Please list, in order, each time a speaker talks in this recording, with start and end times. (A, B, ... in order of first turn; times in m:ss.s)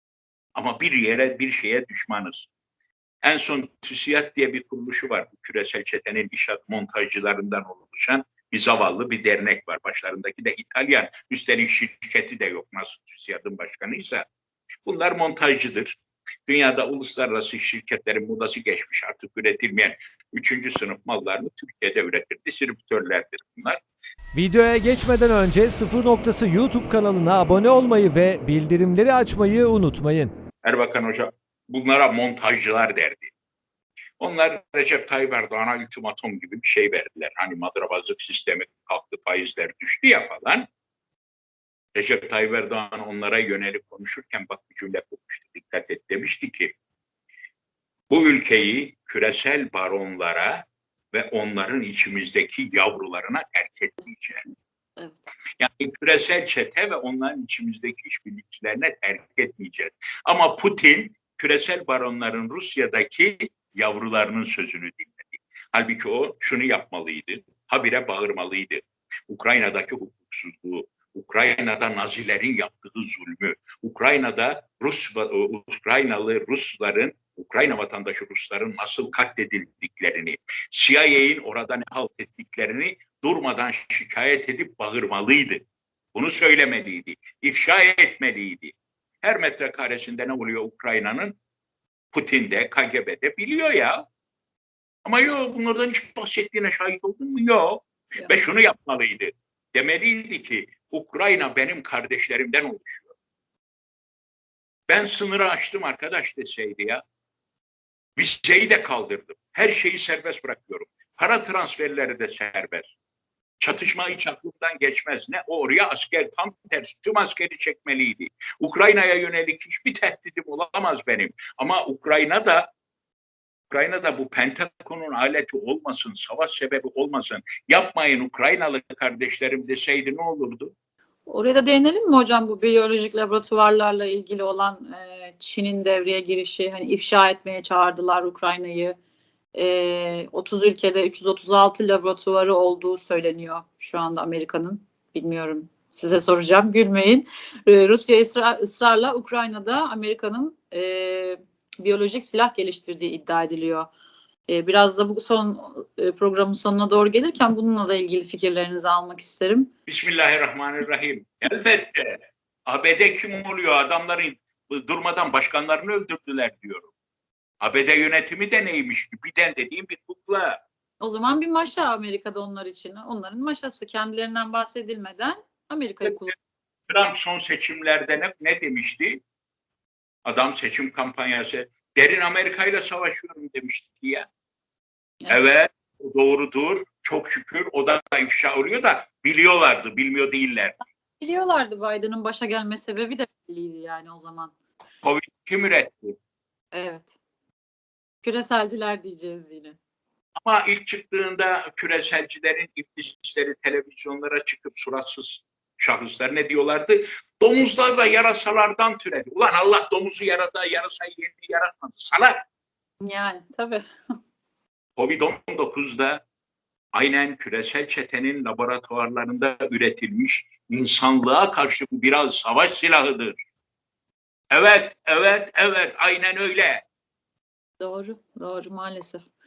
0:00.6-0:02.5 A
0:03.2-0:14.3 A
0:14.8-0:23.8 A
0:24.3-0:30.3 B
0:30.6-0:33.3 A
0:34.2-0:40.7 A
0:42.0-0:46.7 A
0:48.1-0:54.4 A
0:55.0-0:55.3 C
0:55.6-1:31.4 A
1:32.1-1:34.0 A
1:35.0-1:43.2 A
1:44.9-1:47.0 A
1:48.2-1:52.9 A
1:53.6-2:02.7 A
2:03.7-2:10.7 A
2:11.3-2:19.0 C
2:19.6-2:33.9 C
2:34.5-2:39.7 C
2:39.9-2:46.9 A
2:47.6-2:50.6 A
2:51.0-2:56.4 C
2:56.0-2:56.3 A
2:56.9-2:59.2 A
3:00.3-3:04.3 A
3:05.3-3:10.8 A
3:11.2-3:14.5 C
3:15.0-3:16.2 A
3:16.7-3:17.1 C
3:18.2-3:19.8 C
3:20.4-3:32.4 A
3:33.0-3:33.8 C
3:35.0-3:36.2 A
3:36.9-3:43.4 A
3:44.5-3:46.8 A
3:47.8-3:49.3 C